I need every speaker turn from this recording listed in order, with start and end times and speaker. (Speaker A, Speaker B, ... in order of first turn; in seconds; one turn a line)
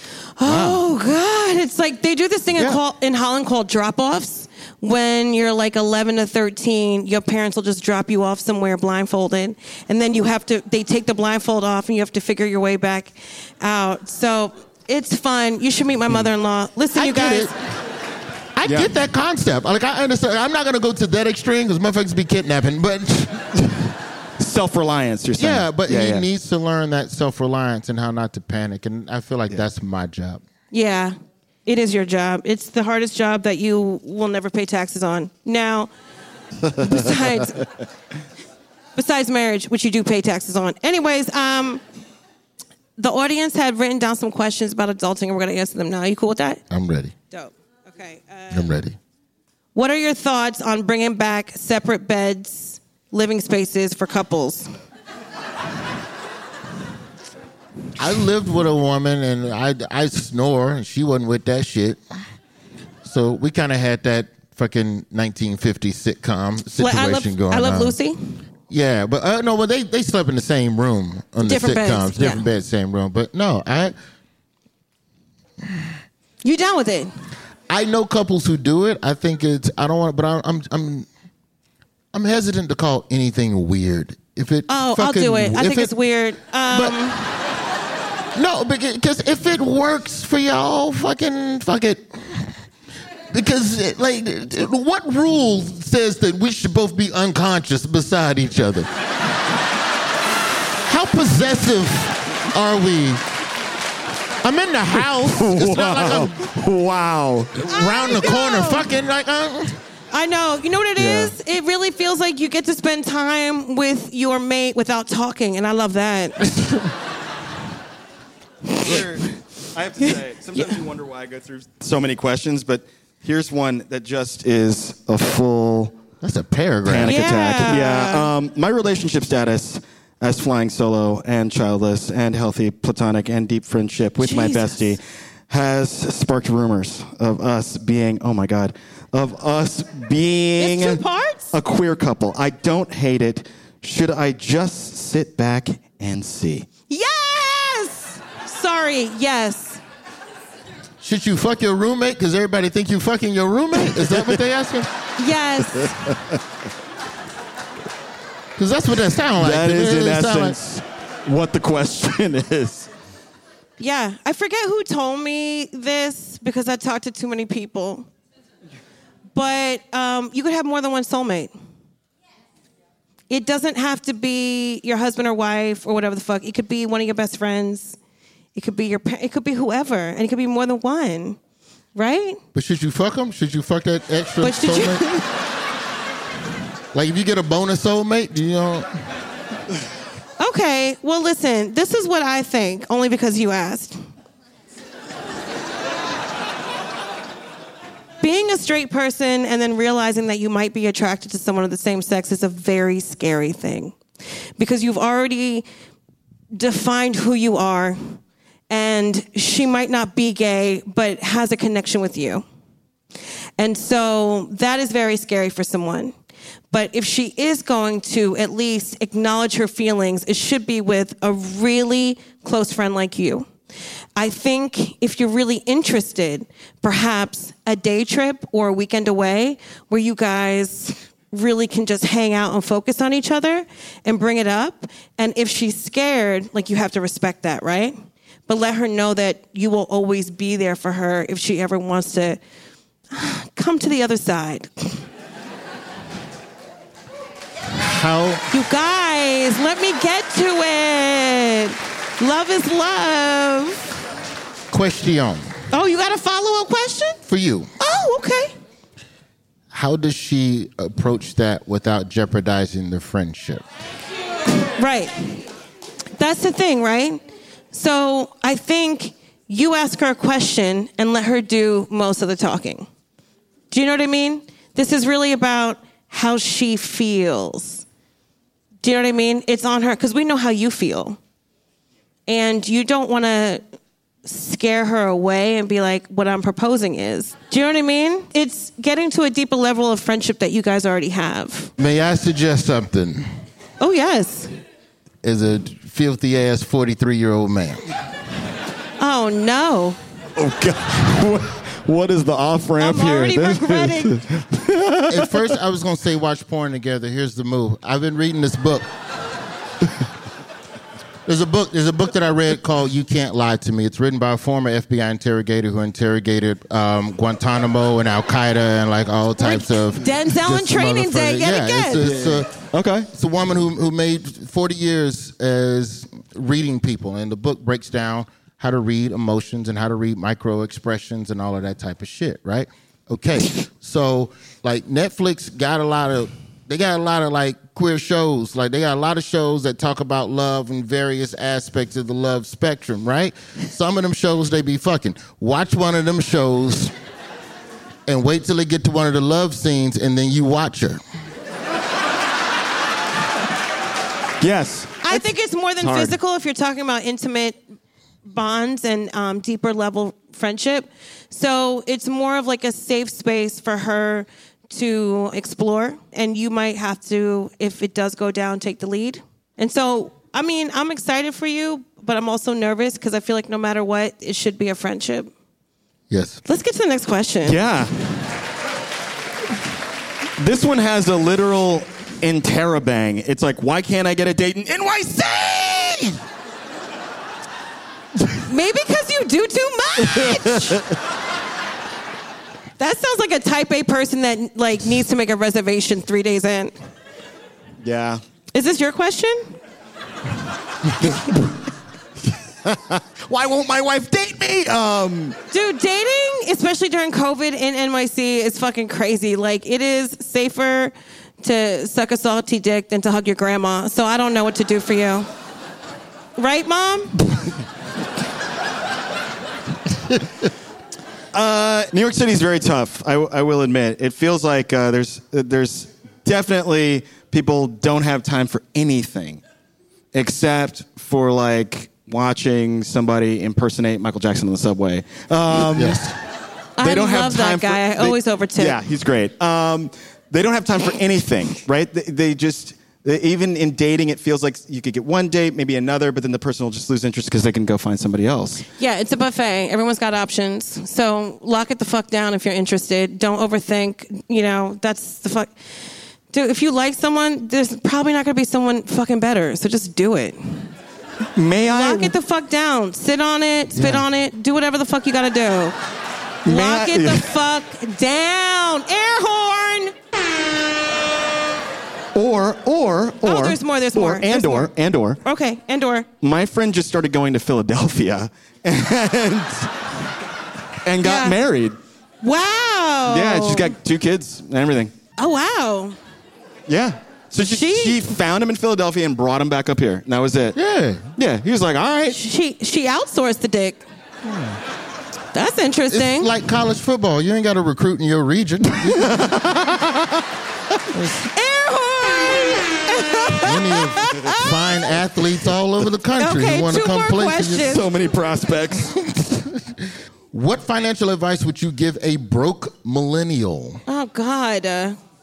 Speaker A: 0.4-17.5
Speaker B: 0.5-0.8
Speaker B: 17.0-17.6
Speaker B: 18.6-23.5
Speaker C: 18.6-18.9
Speaker C: 23.6-23.9
Speaker C: 24.4-26.2
Speaker B: 25.4-30.4
Speaker A: 30.7-31.1
Speaker A: 31.7-35.9
Speaker A: 36.8-37.7
Speaker A: 39.0-41.8
Speaker A: 43.0-46.6
Speaker B: 46.7-47.1
Speaker A: 47.3-48.8
Speaker B: 48.5-49.0
Speaker A: 49.8-54.7
Speaker B: 58.0-62.0
Speaker B: 63.0-68.0
Speaker A: 66.8-68.4
Speaker B: 68.7-73.9
Speaker A: 71.4-72.4
Speaker A: 76.4-77.1
Speaker B: 77.7-81.1
Speaker B: 82.1-85.9
Speaker A: 84.7-87.5
Speaker B: 86.7-87.0
Speaker B: 88.3-92.7
Speaker B: 93.3-98.9
Speaker B: 100.9-103.2
Speaker B: 104.4-106.4
Speaker C: 105.0-107.7
Speaker B: 107.6-109.8
Speaker A: 107.7-108.9
Speaker A: 110.1-116.6
Speaker C: 111.0-111.3
Speaker B: 116.4-116.9
Speaker A: 118.7-118.9
Speaker C: 118.7-126.0
Speaker A: 120.0-120.7
Speaker B: 126.2-127.2
Speaker C: 126.8-146.7
Speaker A: 127.1-128.3
Speaker A: 134.2-134.9
Speaker A: 140.6-141.6
Speaker A: 146.9-149.8
Speaker B: 151.0-154.9
Speaker C: 153.8-154.4
Speaker A: 155.2-156.0
Speaker C: 155.8-156.4
Speaker B: 158.6-160.6
Speaker C: 159.4-162.9
Speaker A: 163.8-168.1
Speaker A: 169.3-171.5
Speaker A: 173.3-178.0
Speaker A: 178.6-181.4
Speaker A: 181.9-182.4
Speaker B: 182.5-185.0
Speaker A: 184.4-185.2
Speaker B: 186.9-188.9
Speaker A: 190.4-194.0
Speaker A: 198.2-204.0
Speaker A: 204.6-205.7
Speaker A: 206.5-212.4
Speaker A: 213.6-216.1
Speaker A: 216.7-223.5
Speaker A: 224.2-238.0
Speaker A: 238.5-242.4
Speaker A: 243.1-245.1
Speaker B: 247.7-248.4
Speaker A: 248.5-254.0
Speaker B: 254.7-255.5
Speaker A: 255.7-257.2
Speaker B: 257.3-257.7
Speaker A: 257.8-258.5
Speaker B: 259.7-263.6
Speaker A: 264.8-265.4
Speaker A: 266.2-272.9
Speaker A: 273.7-277.9
Speaker A: 278.8-281.2
Speaker A: 282.3-283.6
Speaker A: 284.2-291.7
Speaker B: 291.8-293.2
Speaker A: 293.8-294.5
Speaker B: 295.2-297.8
Speaker A: 299.0-300.0
Speaker C: 300.4-305.5
Speaker A: 302.8-304.1
Speaker B: 305.1-308.9
Speaker B: 311.3-322.5
Speaker A: 319.4-322.1
Speaker C: 322.0-323.1
Speaker B: 323.1-346.9
Speaker B: 348.1-351.0
Speaker C: 354.4-355.2
Speaker A: 355.0-357.6
Speaker C: 355.8-356.1
Speaker A: 358.2-375.3
Speaker B: 376.1-376.4
Speaker A: 376.5-377.6
Speaker C: 377.4-377.9
Speaker C: 380.4-386.2
Speaker A: 388.4-390.8
Speaker C: 390.0-391.0
Speaker A: 392.8-396.7
Speaker C: 397.8-398.2
Speaker A: 398.6-399.6
Speaker C: 402.6-405.4
Speaker A: 405.5-415.3
Speaker A: 416.4-417.2
Speaker C: 421.3-429.4
Speaker C: 430.1-436.1
Speaker B: 435.5-436.2
Speaker A: 436.8-438.8
Speaker C: 436.8-448.7
Speaker A: 448.8-455.7
Speaker A: 456.3-460.7
Speaker C: 461.4-462.1
Speaker A: 461.7-465.8
Speaker B: 463.8-464.1
Speaker A: 466.4-469.9
Speaker C: 466.5-467.3
Speaker C: 472.1-475.2
Speaker A: 473.2-474.7
Speaker A: 475.2-476.1
Speaker C: 476.2-479.8
Speaker C: 480.8-481.8
Speaker A: 481.0-481.4
Speaker A: 482.2-483.7
Speaker C: 483.1-484.9
Speaker A: 485.2-486.0
Speaker C: 486.7-490.6
Speaker A: 487.4-488.0
Speaker B: 490.6-491.1
Speaker C: 491.2-492.2
Speaker A: 492.1-493.8
Speaker B: 494.2-494.6
Speaker A: 495.3-496.3
Speaker B: 495.9-499.9
Speaker C: 498.8-499.4
Speaker B: 500.9-501.2
Speaker A: 501.2-504.9
Speaker B: 503.4-507.8
Speaker A: 506.2-507.9
Speaker C: 507.6-508.9
Speaker B: 508.7-513.8
Speaker A: 513.9-515.0